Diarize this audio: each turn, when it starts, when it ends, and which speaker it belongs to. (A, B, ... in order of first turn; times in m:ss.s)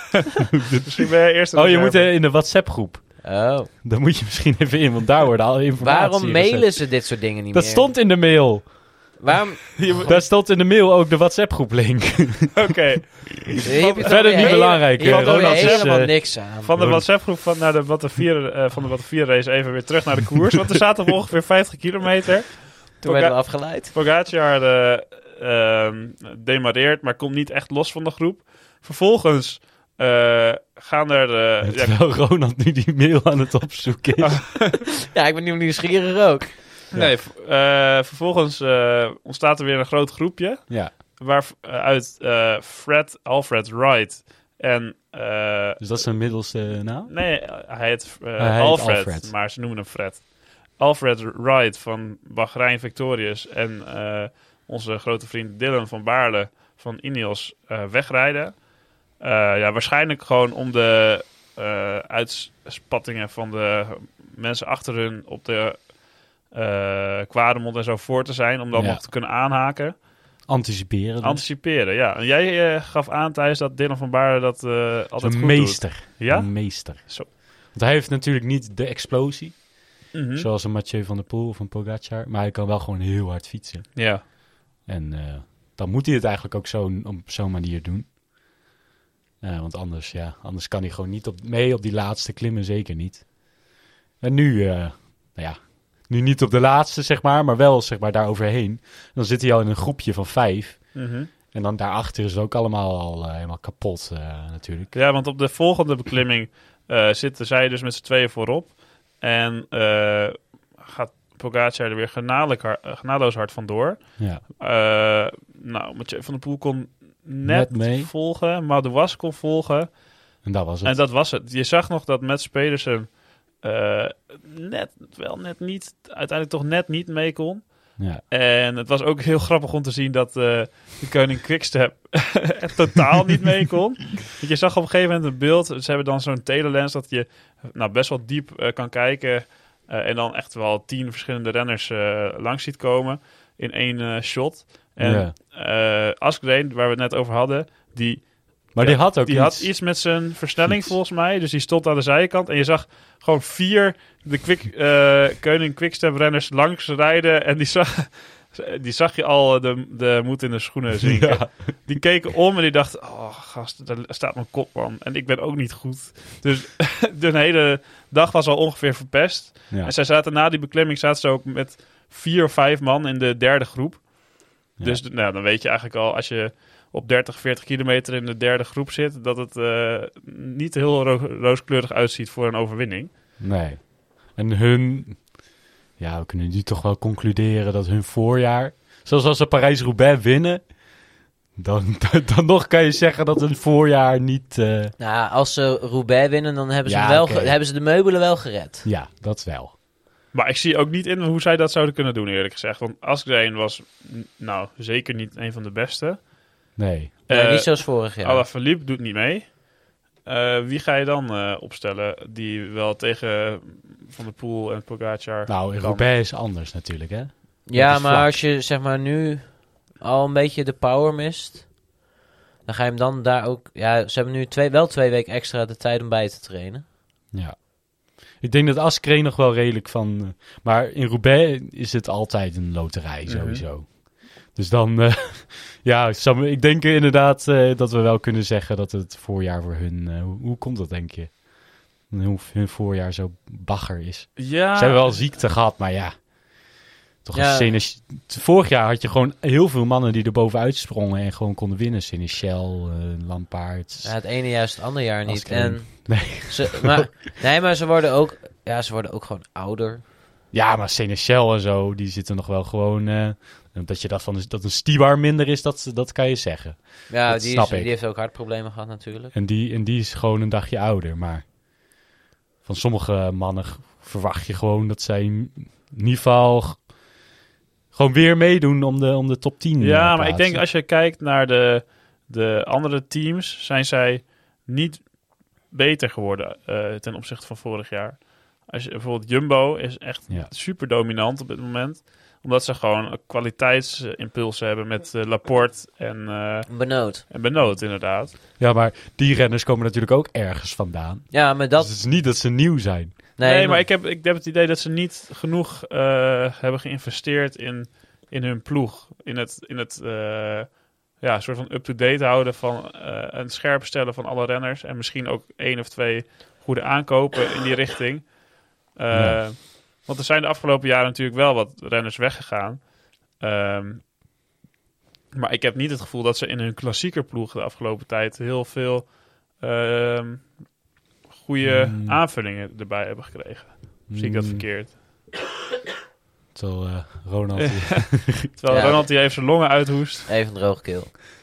0:00.8-0:02.2 A
0:01.5-0:09.2 B
0:03.2-0:03.7 C
0:05.8-0:08.2 C
0:09.2-0:10.0 C
0:09.8-0:10.3 A
0:10.0-0:12.7 B
0:12.5-0:32.1 A
0:13.6-0:16.7 C
0:14.0-0:17.1 B
0:23.0-0:23.9 C
0:31.6-0:34.6 B
0:35.1-0:36.6 C
0:36.9-1:10.0 A
0:40.7-0:40.9 B
0:45.8-0:47.1 B
0:48.4-0:49.3 B
1:08.7-1:09.0 B
1:10.4-1:11.4 B
1:11.2-1:17.3 A
1:15.2-1:24.3 B
1:20.1-1:20.5 A
1:24.0-1:24.2 A
1:24.8-1:28.2 B
1:29.4-1:44.9 B
1:40.9-1:41.3 A
1:44.9-3:03.1 A
1:54.2-1:54.4 B
1:57.4-1:58.1 B
2:00.4-2:01.0 B
2:25.0-2:25.3 B
2:28.7-2:30.1 B
2:30.6-2:31.0 B
2:41.0-2:41.7 B
3:03.4-3:14.9 B
3:15.0-3:18.9 C
3:16.8-3:17.6 B
3:18.8-3:19.7 B
3:20.3-3:26.6 A
3:26.8-3:27.2 B
3:27.3-3:36.1 A
3:27.3-3:28.4 C
3:35.5-3:38.4 B
3:37.7-3:41.9 C
3:42.6-3:46.8 C
3:47.3-4:14.1 B
3:53.2-3:53.6 A
4:04.4-4:05.4 A
4:07.3-4:07.8 C
4:14.0-4:20.0 C
4:15.2-4:17.1 B
4:20.5-4:27.9 B
4:27.1-4:29.3 C
4:29.3-4:31.5 B
4:32.6-4:36.9 B
4:37.9-4:40.6 B
4:39.8-4:58.3 A
4:56.7-4:57.2 C
4:58.6-5:03.2 B
5:01.3-5:01.9 C
5:03.4-5:03.8 C
5:03.4-5:24.1 A
5:19.1-5:19.4 B
5:25.3-5:34.9 A
5:31.6-5:32.2 B
5:34.1-5:34.7 B
5:36.5-5:38.5 B
5:37.6-5:40.3 A
5:38.7-5:39.4 C
5:40.3-5:41.1 C